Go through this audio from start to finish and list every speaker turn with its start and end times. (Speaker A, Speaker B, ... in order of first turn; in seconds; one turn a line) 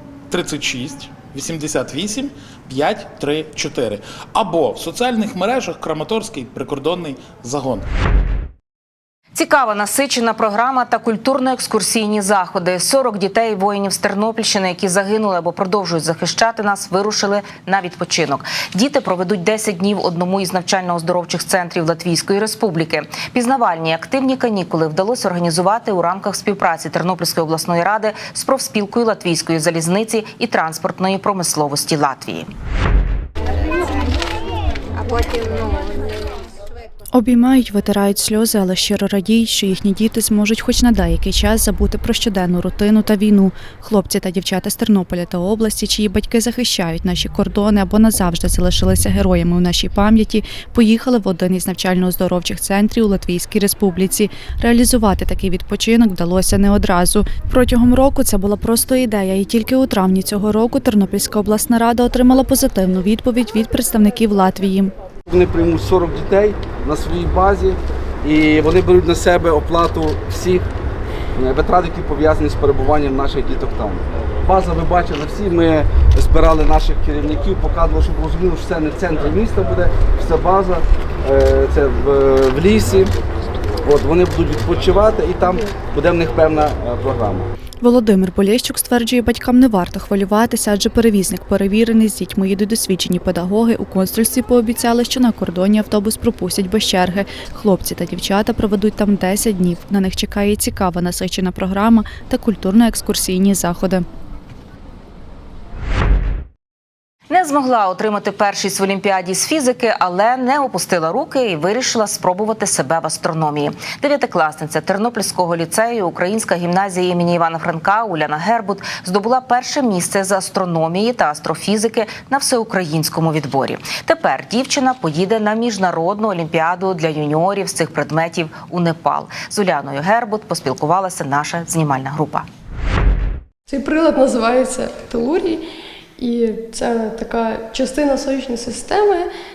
Speaker A: 0.3-7.8
Speaker B: 9.3-32.5
Speaker C: 37.1-64.9
Speaker D: 65.3-67.8
Speaker D: 68.3-70.6
Speaker D: 71.4-83.1
Speaker D: 83.9-87.5
Speaker C: 87.8-104.0
Speaker B: 107.3-132.4
Speaker E: 133.7-135.6
Speaker E: 136.2-139.3